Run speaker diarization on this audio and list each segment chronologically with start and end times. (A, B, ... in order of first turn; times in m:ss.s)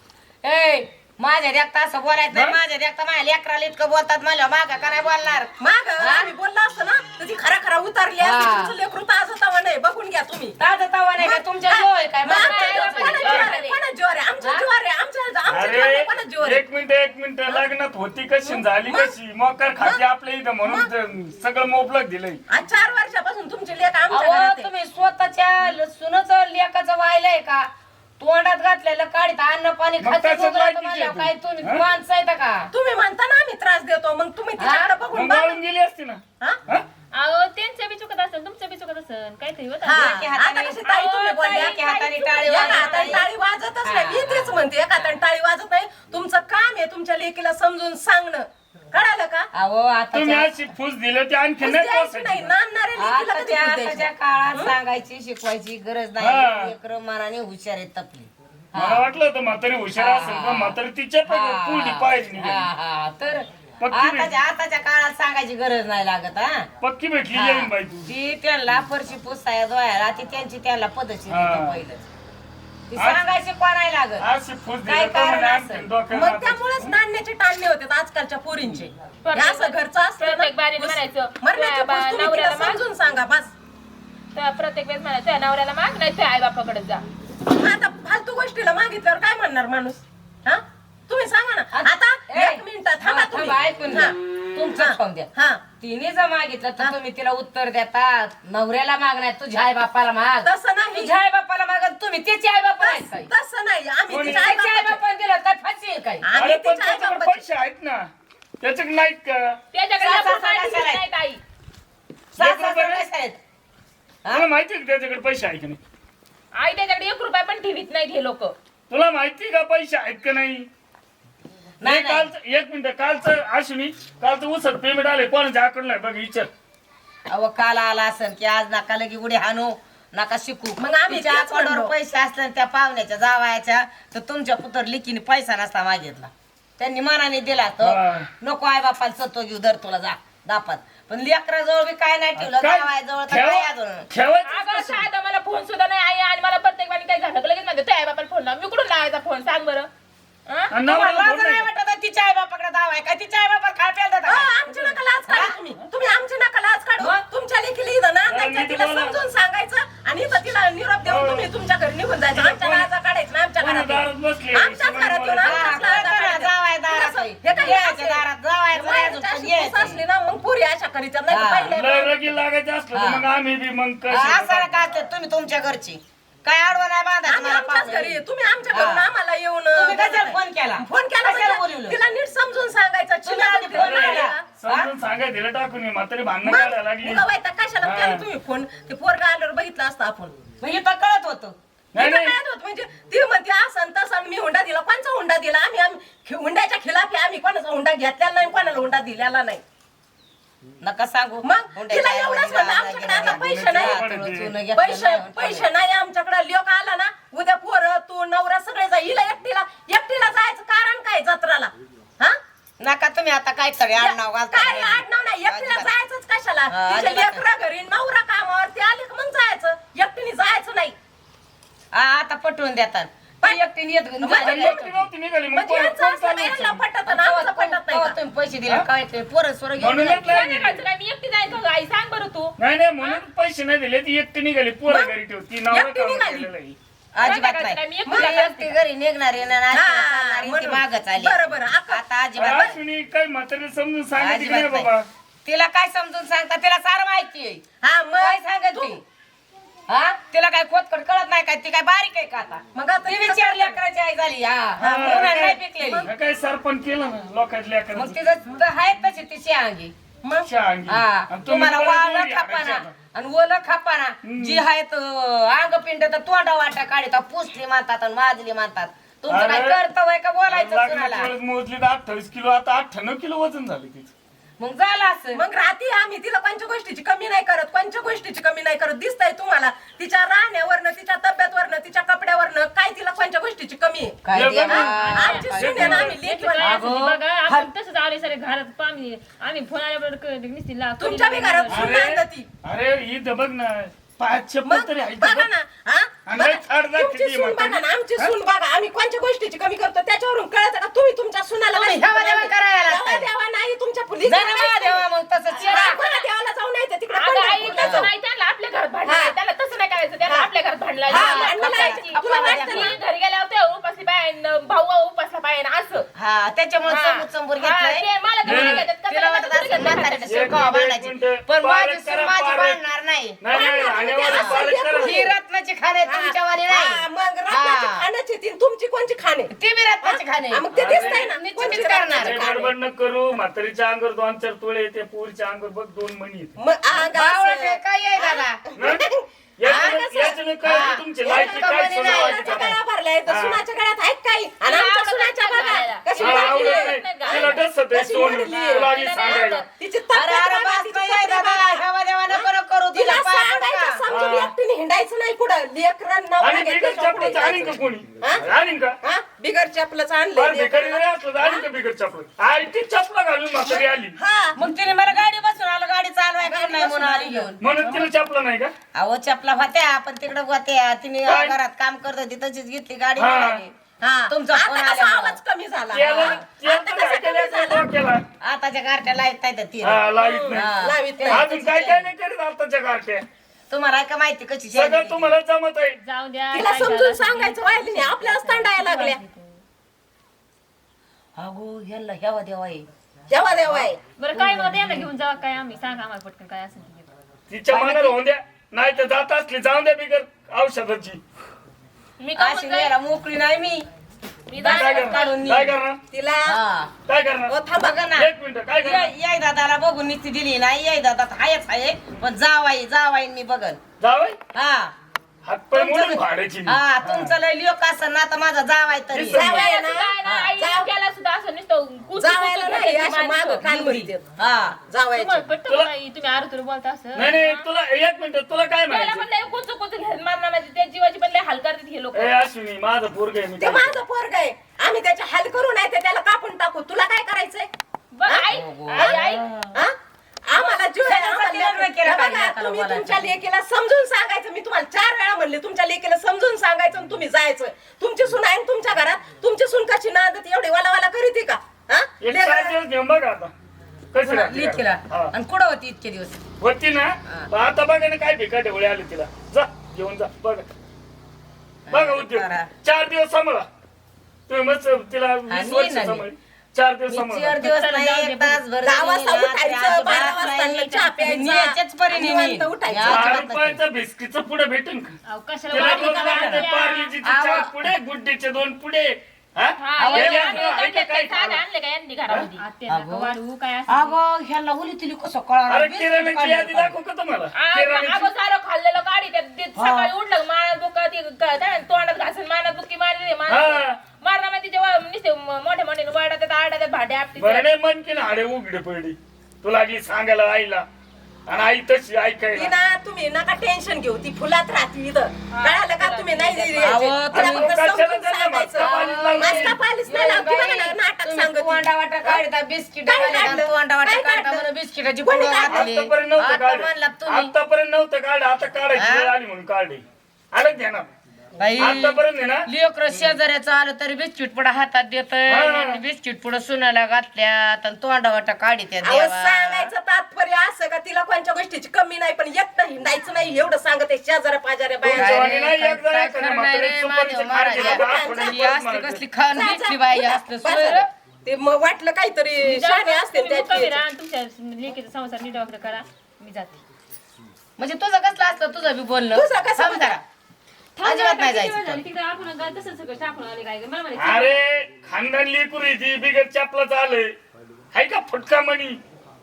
0:00.4-0:06.3 A
0:02.3-0:02.6 B
0:05.6-0:10.6 C
0:08.2-0:08.7 A
0:10.6-0:13.4 A
0:11.2-0:16.6 C
0:12.3-0:13.8 D
0:13.2-0:13.5 B
0:14.4-0:14.7 A
0:15.5-0:22.4 B
0:18.4-0:19.1 C
0:22.5-0:24.7 C
0:24.1-0:32.7 A
0:30.0-0:31.8 B
0:32.7-0:35.6 C
0:34.6-0:34.9 A
0:35.1-0:36.8 B
0:37.1-0:40.1 E
0:39.8-0:49.5 C
0:39.8-0:43.3 A
0:41.3-0:41.6 D
0:42.4-0:43.1 D
0:43.8-0:44.6 A
0:49.5-0:50.5 A
0:50.1-0:52.5 B
0:51.6-0:54.7 C
0:53.0-0:59.0 A
0:56.2-0:56.7 B
0:58.8-1:02.7 B
0:59.9-1:06.7 A
1:03.8-1:04.3 B
1:06.8-1:08.0 B
1:07.3-1:12.0 A
1:11.3-1:11.8 B
1:12.9-1:14.2 A
1:13.0-1:13.2 B
1:14.2-1:16.9 B
1:14.9-1:15.9 A
1:16.1-1:23.5 C
1:19.2-1:22.8 D
1:24.3-1:27.0 D
1:27.5-1:34.1 C
1:31.7-1:43.3 A
1:34.8-1:35.6 C
1:40.4-1:41.2 C
1:42.8-1:45.0 C
1:44.1-1:44.6 B
1:44.1-1:46.2 A
1:46.2-1:47.4 C
1:46.3-1:48.1 B
1:48.6-1:49.6 B
1:49.7-1:51.4 D
1:50.0-1:51.0 A
1:52.3-1:53.4 A
1:52.4-1:53.0 B
1:54.3-1:55.8 B
1:56.5-1:58.5 D
1:58.9-2:00.7 B
2:01.8-2:02.3 A
2:01.8-2:06.5 B
2:07.3-2:24.1 A
2:10.8-2:11.9 C
2:17.8-2:18.3 B
2:22.4-2:25.0 B
2:24.4-2:29.9 D
2:30.5-2:30.7 D
2:30.7-2:31.7 B
2:30.8-2:35.6 A
2:34.2-2:52.4 C
2:38.3-2:39.2 B
2:41.0-2:41.5 B
2:42.3-2:42.9 B
2:43.6-2:46.2 B
2:45.4-2:50.0 A
2:51.3-2:51.8 A
2:51.7-2:54.7 B
2:52.9-2:53.2 A
2:54.1-2:58.2 A
2:57.2-3:04.4 C
2:58.7-2:59.0 A
2:59.7-3:02.0 A
3:03.2-3:04.9 A
3:03.7-3:07.2 B
3:06.4-3:10.4 C
3:07.8-3:08.3 B
3:10.6-3:11.5 A
3:11.9-3:12.4 B
3:12.0-3:19.6 C
3:20.8-3:25.7 A
3:21.4-3:24.0 C
3:23.2-3:24.6 B
3:24.7-3:32.4 C
3:32.8-3:35.9 A
3:34.0-3:40.9 C
3:36.7-3:37.4 A
3:41.9-3:44.8 A
3:44.2-3:45.0 C
3:44.3-3:46.8 B
3:45.5-3:48.1 C
3:47.1-3:50.4 A
3:49.8-3:50.8 B
3:50.2-3:53.2 D
3:52.6-3:56.8 B
3:54.9-3:55.1 C
3:55.7-3:56.5 C
3:57.1-4:01.4 A
3:57.2-3:58.7 D
3:58.1-3:58.4 C
3:59.7-4:02.0 C
4:01.9-4:02.8 A
4:02.4-4:05.1 B
4:04.2-4:04.9 A
4:05.4-4:07.6 A
4:07.8-4:09.0 C
4:08.2-4:09.0 A
4:09.9-4:16.1 A
4:12.7-4:13.8 C
4:14.8-4:18.2 B
4:14.8-4:16.1 C
4:17.9-4:19.9 A
4:20.4-4:22.9 B
4:20.9-4:31.3 A
4:24.2-4:24.6 B
4:29.3-4:29.8 B
4:30.5-4:34.1 B
4:34.6-4:35.4 A
4:35.3-4:46.8 C
4:44.2-4:47.7 A
4:44.3-4:46.0 B
4:44.8-4:52.0 E
4:51.0-4:52.5 C
4:51.7-4:55.5 B
4:54.7-5:05.0 C
4:56.2-4:58.3 B
5:01.7-5:03.3 A
5:04.2-5:06.0 A
5:05.5-5:06.2 D
5:05.6-5:08.1 C
5:07.1-5:16.1 D
5:07.8-5:08.1 A
5:09.0-5:09.3 C
5:11.1-5:13.0 C
5:11.1-5:13.0 A
5:16.2-5:23.4 A
5:16.9-5:20.6 D
5:18.4-5:18.9 B
5:20.3-5:22.8 B
5:23.4-5:25.2 B
5:23.5-5:25.3 C
5:24.2-5:28.0 A
5:26.0-5:29.5 C
5:29.5-5:32.7 A
5:30.0-5:32.7 C
5:30.7-5:36.6 B
5:36.6-5:58.5 C
5:36.9-5:38.6 A
5:38.8-5:42.7 B
5:39.6-5:40.0 A
5:40.6-5:42.8 A
5:43.2-5:43.6 B
5:44.6-5:47.6 D
5:46.2-5:49.6 B
5:48.7-5:49.7 D
5:50.1-5:54.0 A
5:54.1-5:54.5 B
5:56.4-5:59.0 B
5:59.0-6:01.6 C
6:00.4-6:04.2 B
6:03.6-6:04.6 C
6:04.5-6:07.6 A
6:06.4-6:08.1 C
6:07.6-6:08.7 B
6:08.9-6:13.7 A
6:11.2-6:11.6 B
6:13.2-6:13.6 B
6:14.0-6:17.9 C
6:14.3-6:15.4 A
6:15.9-6:18.2 B
6:16.0-6:16.4 A
6:18.4-6:21.5 A
6:19.8-6:23.2 B
6:20.1-6:22.1 C
6:23.7-6:25.3 A
6:24.7-6:26.0 B
6:26.0-6:29.6 E
6:26.5-6:29.2 C
6:31.4-6:32.9 A
6:33.3-6:34.0 C
6:33.7-6:35.1 A
6:34.2-6:37.1 E
6:37.5-6:41.2 B
6:37.8-6:38.1 C
6:42.2-6:42.9 D
6:42.4-6:43.9 A
6:44.5-6:45.4 D
6:44.6-6:45.8 A
6:44.6-6:46.0 B
6:46.1-6:46.6 C
6:46.4-6:46.9 A
6:47.1-6:47.6 B
6:47.5-6:48.0 C
6:47.7-6:48.3 A
6:48.1-6:49.1 B
6:48.8-6:53.8 A
6:54.0-6:54.4 B
6:54.5-6:54.9 A
6:55.4-6:57.3 B
6:55.8-6:59.6 A
6:59.1-6:59.5 B
6:59.3-7:00.9 C
6:59.4-7:03.7 D
7:00.2-7:00.5 A
7:02.2-7:04.2 C
7:03.6-7:04.8 A
7:04.9-7:05.5 C
7:05.1-7:07.4 E
7:05.7-7:05.9 B
7:07.1-7:09.3 B
7:07.2-7:07.6 D
7:08.9-7:12.4 D
7:12.1-7:13.9 B
7:13.6-7:17.7 C
7:18.1-7:19.4 D
7:18.3-7:19.2 C
7:18.5-7:19.7 A
7:20.5-7:32.7 C
7:21.0-7:23.3 A
7:32.2-7:33.5 B
7:34.1-7:35.3 B
7:34.2-7:36.4 A
7:36.6-7:40.6 B
7:41.9-7:42.7 A
7:41.9-7:43.7 B
7:44.5-7:47.6 B
7:45.5-7:46.2 A
7:47.1-7:53.8 A
7:47.6-7:48.6 E
7:48.8-7:53.4 C
7:53.0-7:55.2 B
7:55.3-7:57.1 E
7:55.7-8:01.6 B
7:55.7-7:56.7 A
7:57.2-7:57.8 A
7:59.8-8:02.6 D
8:00.0-8:00.7 A
8:02.6-8:04.2 E
8:02.9-8:06.9 A
8:05.7-8:08.3 B
8:07.5-8:17.7 D
8:09.8-8:10.1 B
8:13.5-8:14.0 B
8:17.4-8:20.8 B
8:21.5-8:22.7 B
8:22.6-8:32.4 C
8:25.5-8:27.1 D
8:26.8-8:27.8 A
8:27.3-8:29.8 B
8:28.8-8:37.5 A
8:33.0-8:34.7 C
8:35.2-8:35.9 C
8:35.7-8:41.1 B
8:38.9-8:39.3 A
8:41.6-8:49.9 A
8:41.8-8:42.7 B
8:45.5-8:46.0 B
8:49.0-8:55.5 C
8:55.0-8:59.2 B
8:55.0-9:01.0 A
8:57.7-8:58.7 C
8:59.5-9:04.0 C
9:02.7-9:06.8 E
9:07.8-9:10.2 A
9:09.3-9:10.2 C
9:11.0-9:14.6 E
9:11.0-9:12.0 A
9:14.2-9:17.4 B
9:17.9-9:19.0 B